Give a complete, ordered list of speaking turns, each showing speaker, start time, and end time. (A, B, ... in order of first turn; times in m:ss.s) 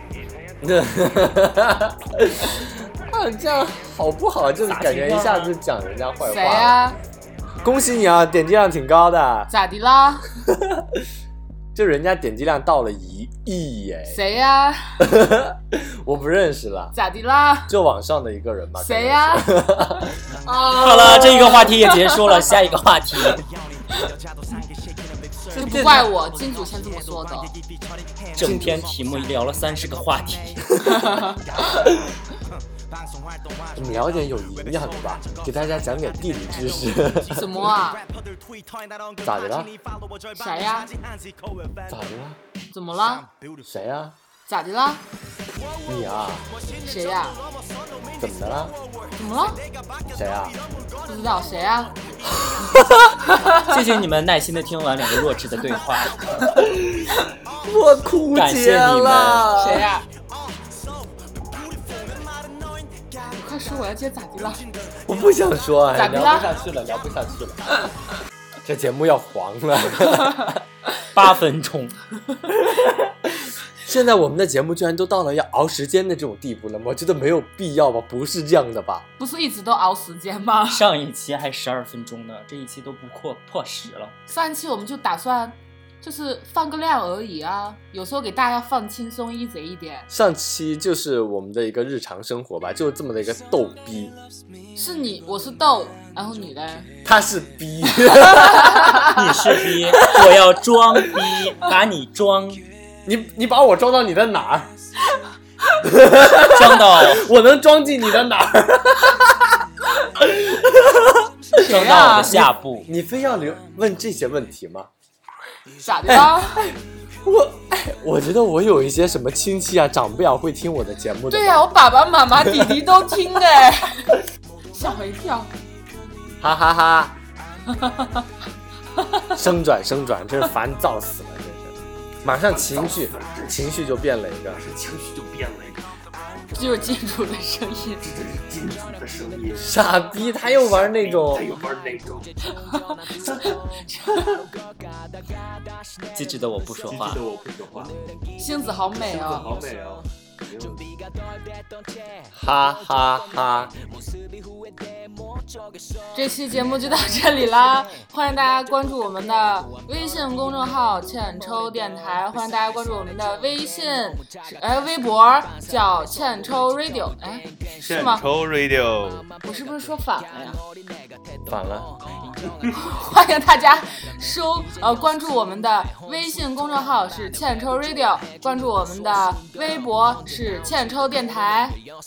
0:00.6-0:06.8 A
0:04.6-0:05.5 B
0:06.2-0:07.0 C
0:07.6-0:09.5 A
0:09.5-0:10.2 C
0:11.8-0:14.2 A
0:14.1-0:15.0 C
0:15.0-0:16.9 A
0:16.9-0:17.8 C
0:17.7-0:20.1 A
0:18.8-0:22.4 C
0:20.5-0:23.4 B
0:25.5-0:26.1 B
0:25.5-0:27.6 C
0:28.4-0:30.7 B
0:28.4-0:28.8 A
0:30.8-0:31.5 C
0:33.8-0:37.6 A
0:37.3-0:38.0 C
0:39.2-0:39.7 A
0:40.3-0:40.9 C
0:41.9-0:42.4 A
0:42.7-0:43.3 C
0:43.7-0:44.2 A
0:44.5-0:45.0 C
0:45.9-0:46.4 A
0:46.8-0:47.4 C
0:48.2-0:48.8 A
0:49.2-0:49.6 C
0:50.1-0:50.6 A
0:51.1-0:51.9 C
0:53.3-0:53.8 C
0:53.6-0:56.4 B
0:57.6-0:59.9 A
0:58.3-0:59.5 B
0:59.5-1:00.1 C
1:03.2-1:04.7 C
1:05.1-1:07.8 A
1:05.9-1:06.6 C
1:08.6-1:10.6 A
1:11.1-1:12.0 B
1:13.8-1:19.0 A
1:19.2-1:20.9 C
1:20.7-1:24.1 B
1:24.3-1:30.1 C
1:30.1-1:34.2 A
1:34.8-1:36.9 C
1:37.0-1:39.1 A
1:38.6-1:39.0 C
1:39.0-1:42.6 B
1:43.1-1:44.7 A
1:45.8-1:49.5 A
1:46.5-1:47.2 B
1:50.0-1:51.2 A
1:51.6-1:52.4 C
1:51.6-1:52.9 B
1:52.1-1:54.9 A
1:55.8-1:56.6 C
1:56.1-2:01.7 A
2:01.3-2:05.5 C
2:06.4-2:07.2 A
2:07.7-2:08.3 C
2:09.0-2:09.3 C
2:09.3-2:14.6 A
2:12.4-2:13.7 D
2:14.5-2:15.9 D
2:16.5-2:18.1 C
2:18.0-2:19.7 D
2:19.6-2:21.6 A
2:20.6-2:22.3 D
2:22.7-2:24.4 C
2:26.2-2:27.2 B
2:26.8-2:28.0 D
2:28.4-2:29.5 C
2:29.0-2:31.0 D
2:32.3-2:33.7 A
2:36.1-2:48.3 C
2:47.8-2:49.3 D
2:49.4-2:50.6 C
2:51.5-2:51.9 A
2:52.7-3:01.8 C